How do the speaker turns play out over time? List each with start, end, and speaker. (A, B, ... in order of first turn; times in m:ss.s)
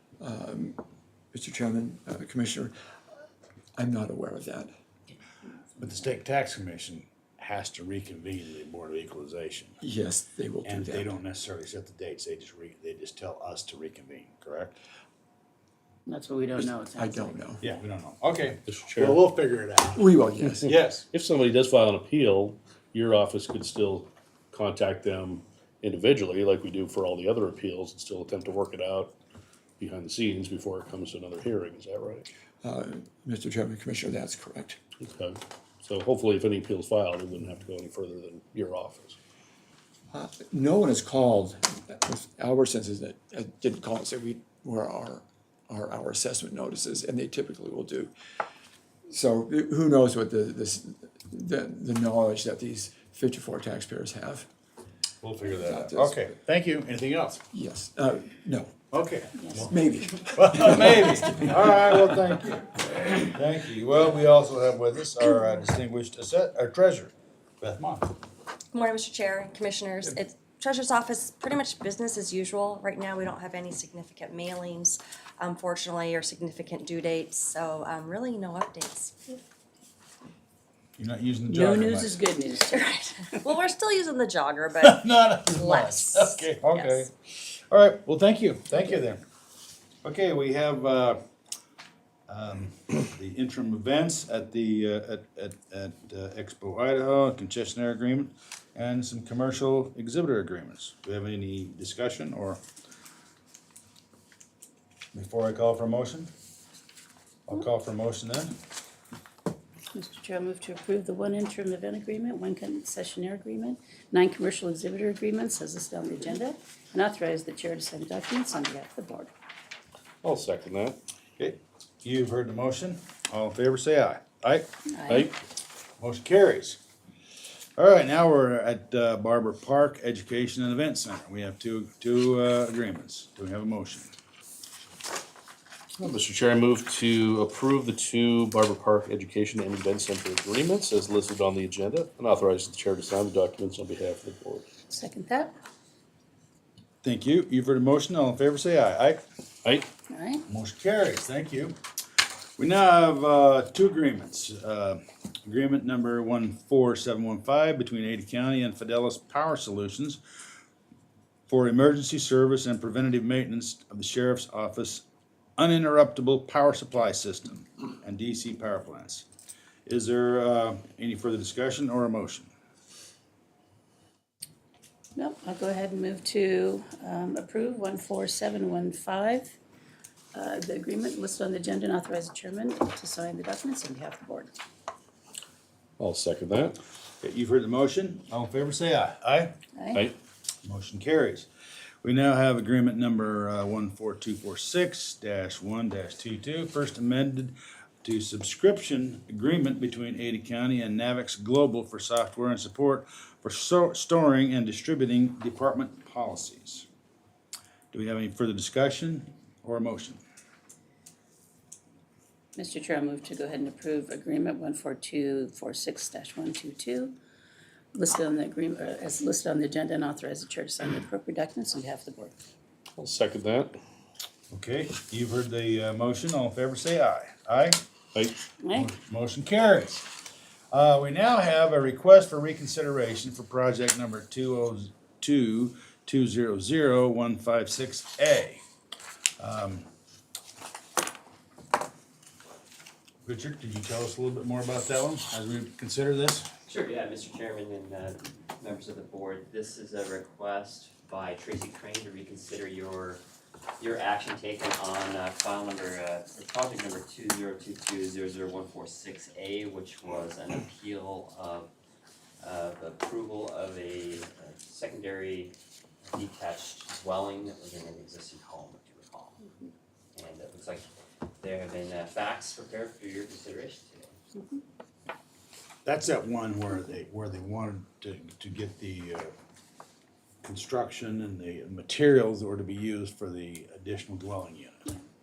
0:00.2-0:00.8 A
0:01.3-0:02.7 A
0:03.8-0:04.7 A
0:05.8-0:09.8 B
0:09.8-0:11.1 A
0:10.6-0:14.7 B
0:16.0-0:17.5 C
0:16.6-0:17.6 A
0:17.6-0:20.1 B
0:18.7-0:19.2 D
0:20.0-0:20.7 A
0:20.6-0:29.1 D
0:20.7-0:21.0 B
0:29.8-0:32.3 D
0:32.6-0:34.8 A
0:35.0-0:39.2 D
0:40.1-0:48.1 A
0:49.1-0:54.5 A
0:55.2-0:57.4 B
0:55.6-0:56.3 A
0:57.5-0:58.8 A
0:58.9-0:59.7 B
0:59.4-0:59.7 C
0:59.6-1:01.8 A
1:00.3-1:08.1 B
1:08.7-1:19.1 E
1:21.0-1:22.2 B
1:21.5-1:23.5 C
1:23.4-1:25.0 E
1:24.8-1:27.1 B
1:25.6-1:26.4 E
1:27.7-1:29.2 B
1:30.0-1:31.2 B
1:32.3-1:42.6 B
1:45.1-1:46.3 B
1:47.5-1:48.6 B
1:49.9-1:59.3 C
2:00.2-2:01.0 D
2:01.4-2:04.7 B
2:04.9-2:05.3 C
2:05.1-2:05.3 D
2:06.0-2:06.8 B
2:07.8-2:14.1 B
2:16.0-2:24.7 D
2:24.9-2:25.5 C
2:27.0-2:29.2 B
2:30.1-2:30.4 C
2:30.5-2:31.7 B
2:32.6-2:40.2 B
2:41.5-2:45.0 B
2:45.6-2:49.2 B
2:49.8-2:52.5 B
2:55.2-2:59.5 C
3:00.3-3:04.5 C
3:06.0-3:06.8 D
3:07.2-3:09.5 B
3:09.8-3:10.0 C
3:10.6-3:11.5 B
3:12.0-3:26.8 B
3:27.9-3:30.2 B
3:32.6-3:37.1 C
3:37.9-3:42.3 C
3:43.0-3:43.8 D
3:44.5-3:47.8 B
3:48.6-3:48.9 C
3:48.7-3:50.1 B
3:50.7-3:58.6 B
3:59.4-3:59.8 B
4:03.2-4:06.4 B
4:06.6-4:13.2 F
4:13.8-4:21.7 F
4:22.4-4:25.5 F
4:26.1-4:29.4 F
4:30.1-4:30.9 F
4:31.4-4:34.1 F
4:35.8-4:39.3 B
4:40.4-4:44.8 B